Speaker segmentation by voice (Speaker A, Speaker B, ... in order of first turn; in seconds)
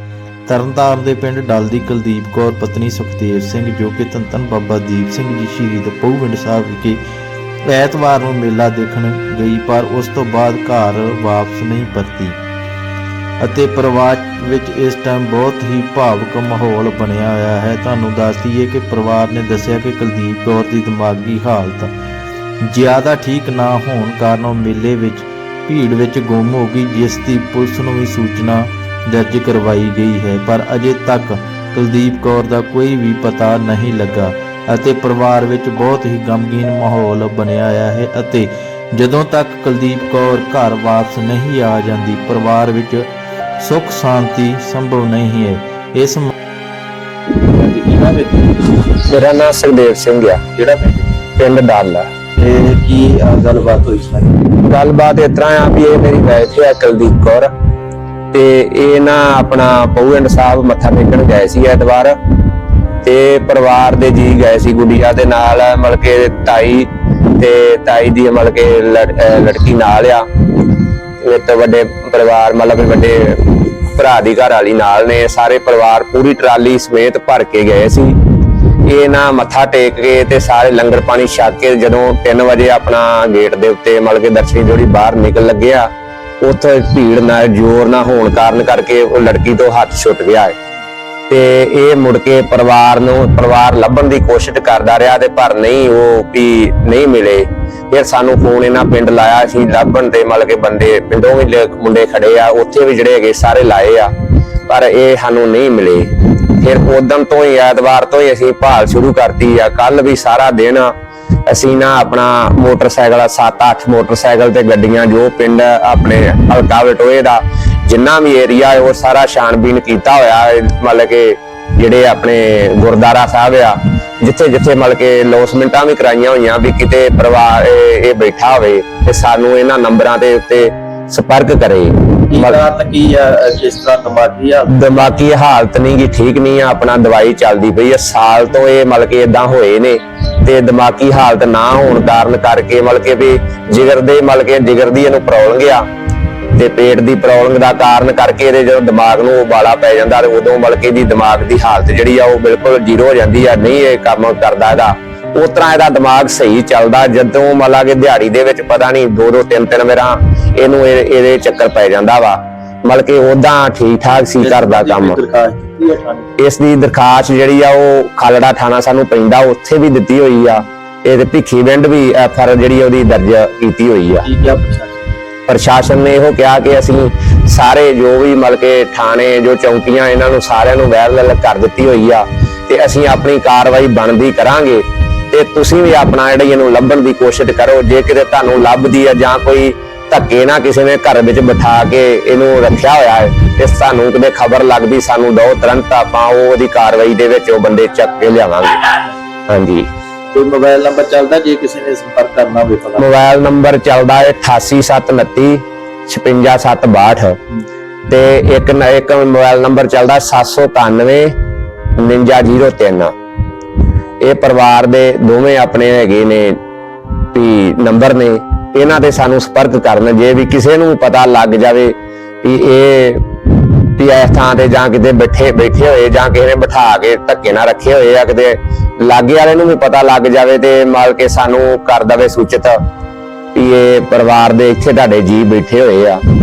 Speaker A: 0.5-7.0, 7.7-12.4, 13.4-21.9, 22.6-43.1, 43.6-46.3
Speaker B: 47.4-48.8, 50.6-51.1, 52.4-54.4, 132.3-134.9, 164.4-166.4, 174.2-175.2, 200.3-203.1
Speaker C: 49.1-50.4, 51.4-52.1, 54.6-57.5, 58.3-62.1, 63.0-70.2, 71.2-78.2, 78.9-85.9, 86.4-90.5, 91.3-104.1, 104.7-110.9, 111.5-132.6, 134.7-145.8, 146.6-165.2, 166.4-174.3, 175.5-199.9, 203.0-207.4, 208.1-211.3, 212.0-213.1, 214.2-216.6, 217.3-232.8, 233.6-236.2